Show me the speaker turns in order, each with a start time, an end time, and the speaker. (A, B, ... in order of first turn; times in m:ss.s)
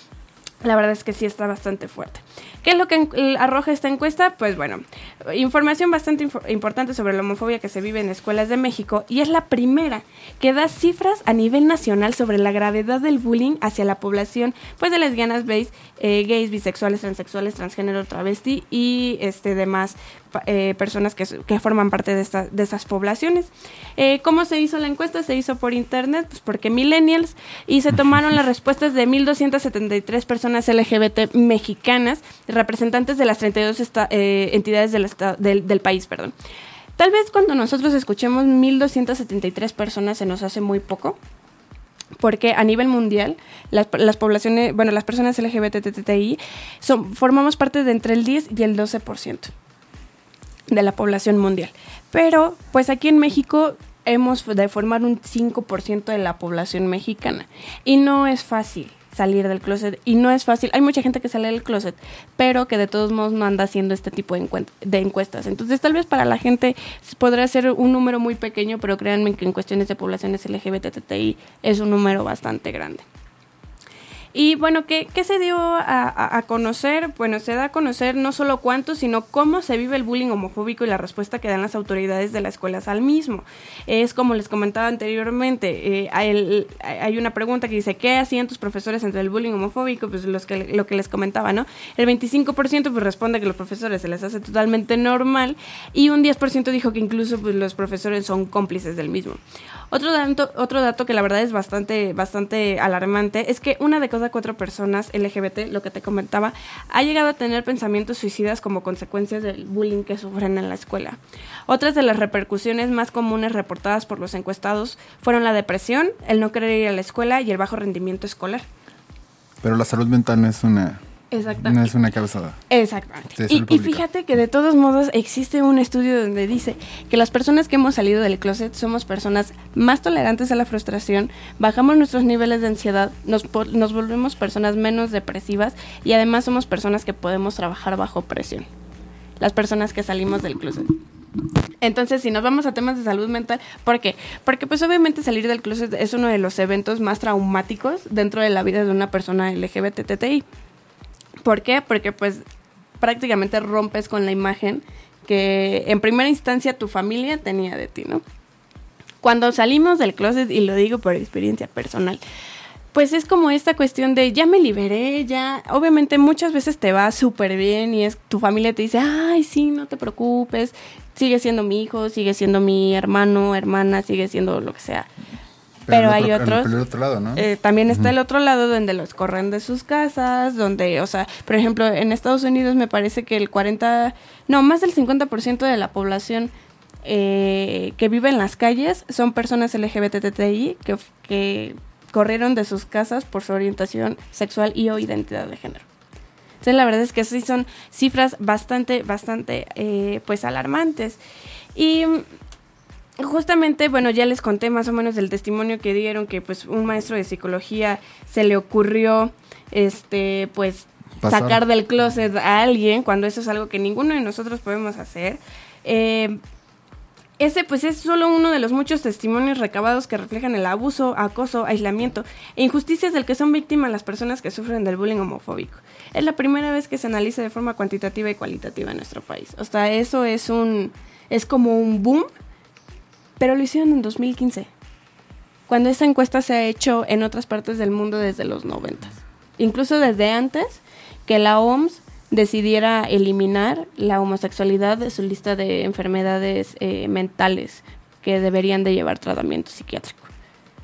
0:00.6-0:36.3 A
0:37.0-0:41.2 A
0:42.2-0:49.5 A
0:50.7-1:13.0 A
1:14.3-1:39.4 A
1:39.9-1:58.6 A
1:59.6-2:01.0 B
2:01.3-2:01.9 A
2:01.6-2:02.6 B
2:02.7-2:18.7 A
2:03.4-2:04.0 B
2:19.4-2:20.9 A
2:21.8-2:30.4 A
2:31.4-2:32.4 A
2:33.0-2:38.2 A
2:39.2-2:42.2 A
2:42.9-2:55.1 A
2:55.9-2:58.1 B
2:55.9-2:56.7 A
2:57.4-3:06.5 A
3:07.0-3:15.8 A
3:16.6-3:21.2 A
3:21.8-3:22.2 A
3:23.2-3:36.4 A
3:31.2-3:31.6 B
3:37.4-3:52.3 A
3:53.4-3:54.7 A
3:55.7-4:10.3 A